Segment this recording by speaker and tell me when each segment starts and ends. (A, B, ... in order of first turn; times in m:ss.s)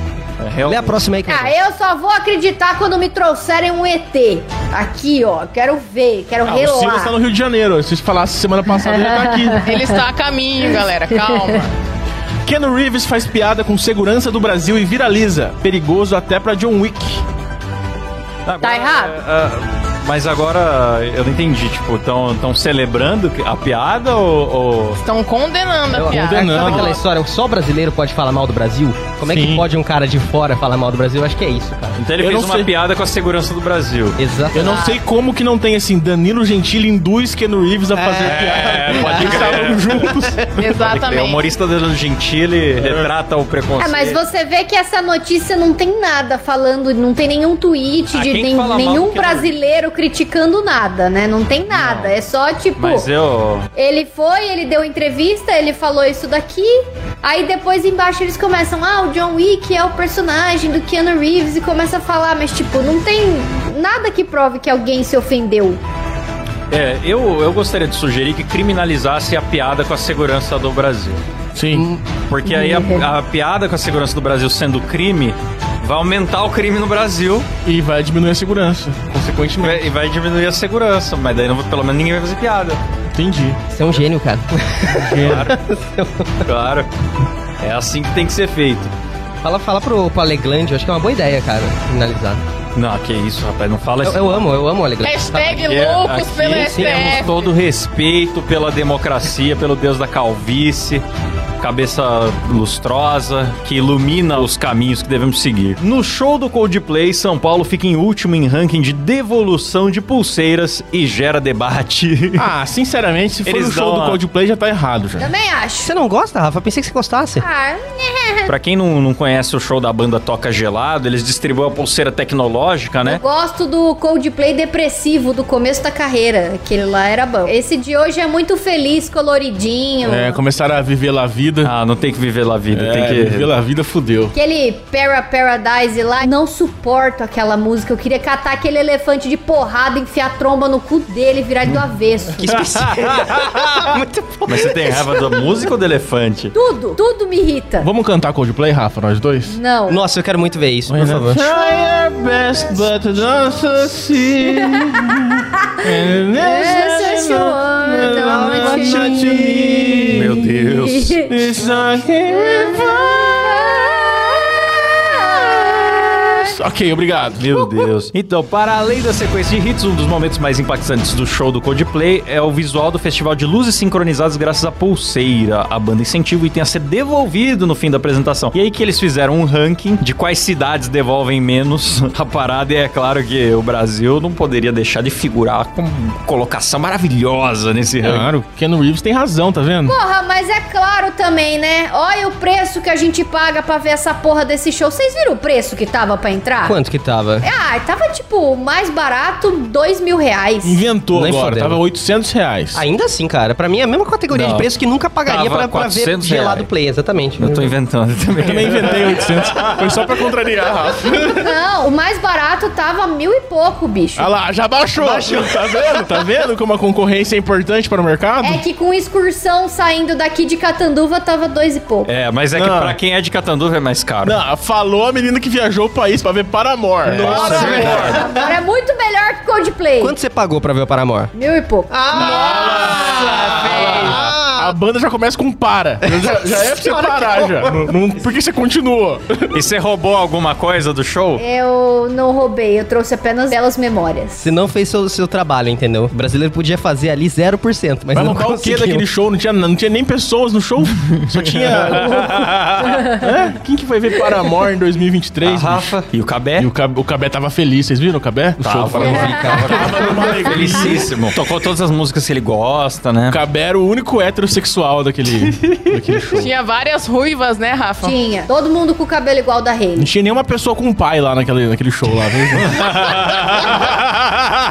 0:00.4-0:01.0 A
0:00.6-0:01.6 B
0:01.3-0:07.2 C
0:06.4-0:09.6 D
0:09.0-0:09.9 C
0:09.6-0:11.7 E
0:11.1-0:11.5 C
0:12.4-0:17.2 D
0:18.4-0:25.0 A
0:18.6-0:19.1 C
0:25.0-0:27.0 E
0:25.9-0:32.0 B
0:26.1-0:26.9 D
0:29.3-0:29.6 D
0:32.0-0:34.2 A
0:32.2-0:32.7 D
0:34.2-0:34.9 B
0:34.5-0:40.4 D
0:34.6-0:35.0 E
0:37.9-0:39.7 B
0:38.2-0:40.1 A
0:40.6-0:41.5 E
0:40.7-0:44.2 A
0:43.8-0:53.1 C
0:48.1-0:49.6 A
0:51.7-0:52.1 A
0:52.8-0:53.7 A
0:53.7-1:05.8 C
1:06.7-1:11.2 A
1:11.5-1:11.9 D
1:11.7-1:12.0 B
1:12.3-1:17.5 A
1:12.4-1:13.0 C
1:17.6-1:19.9 D
1:19.6-1:22.8 A
1:23.1-1:23.6 D
1:23.7-1:26.4 B
1:24.9-1:25.6 D
1:25.2-1:25.6 A
1:26.4-1:26.9 A
1:27.6-1:28.9 A
1:29.4-1:32.4 B
1:32.7-1:34.6 A
1:34.0-1:35.8 B
1:35.0-1:37.4 E
1:35.6-1:41.0 A
1:36.5-1:37.2 B
1:41.6-1:52.5 A
1:52.4-1:55.3 D
1:53.4-1:54.2 A
1:55.2-1:55.9 C
1:55.8-1:57.4 B
1:57.4-1:58.5 C
1:58.4-2:03.2 A
2:03.0-2:10.4 C
2:10.0-2:11.7 D
2:11.6-2:13.5 A
2:12.7-2:14.3 D
2:14.3-2:22.5 C
2:22.4-2:25.5 B
2:22.6-2:23.8 A
2:24.4-2:26.5 A
2:26.5-2:27.9 C
2:27.8-2:29.6 D
2:29.4-2:30.0 C
2:29.9-2:31.5 B
2:30.9-2:40.5 D
2:34.7-2:35.2 C
2:36.4-2:39.6 C
2:38.1-2:40.2 B
2:40.1-2:41.2 A
2:41.2-2:43.8 D
2:42.3-2:46.5 C
2:46.4-2:47.5 D
2:47.4-3:08.3 A
3:08.0-3:10.0 D
3:09.8-3:16.8 C
3:16.6-3:17.5 B
3:17.4-3:20.8 C
3:20.6-3:22.8 D
3:21.1-3:21.8 B
3:22.7-3:27.6 B
3:24.3-3:24.7 A
3:25.2-3:26.7 A
3:27.4-3:30.0 A
3:28.4-3:31.5 D
3:31.3-3:34.3 C
3:34.2-3:38.6 D
3:35.0-3:35.5 B
3:38.4-3:42.1 C
3:42.0-3:44.4 A
3:42.5-3:43.0 D
3:44.2-3:48.0 D
3:47.0-3:48.4 B
3:47.2-3:48.2 A
3:47.6-3:50.1 C
3:50.0-3:51.3 B
3:51.3-3:52.9 C
3:51.9-3:54.7 B
3:52.1-3:54.4 A
3:53.5-3:59.6 D
3:56.0-3:57.9 B
3:59.5-4:01.4 A
4:01.4-4:04.5 C
4:04.4-4:09.1 B
4:08.1-4:16.0 D
4:11.0-4:13.1 A
4:15.4-4:16.7 A
4:16.6-4:21.1 D
4:18.6-4:23.4 A
4:19.0-4:20.5 C
4:19.0-4:20.0 B
4:23.3-4:26.5 D
4:26.3-4:28.2 E
4:28.0-4:30.1 C
4:30.0-4:32.8 D
4:32.5-4:34.3 A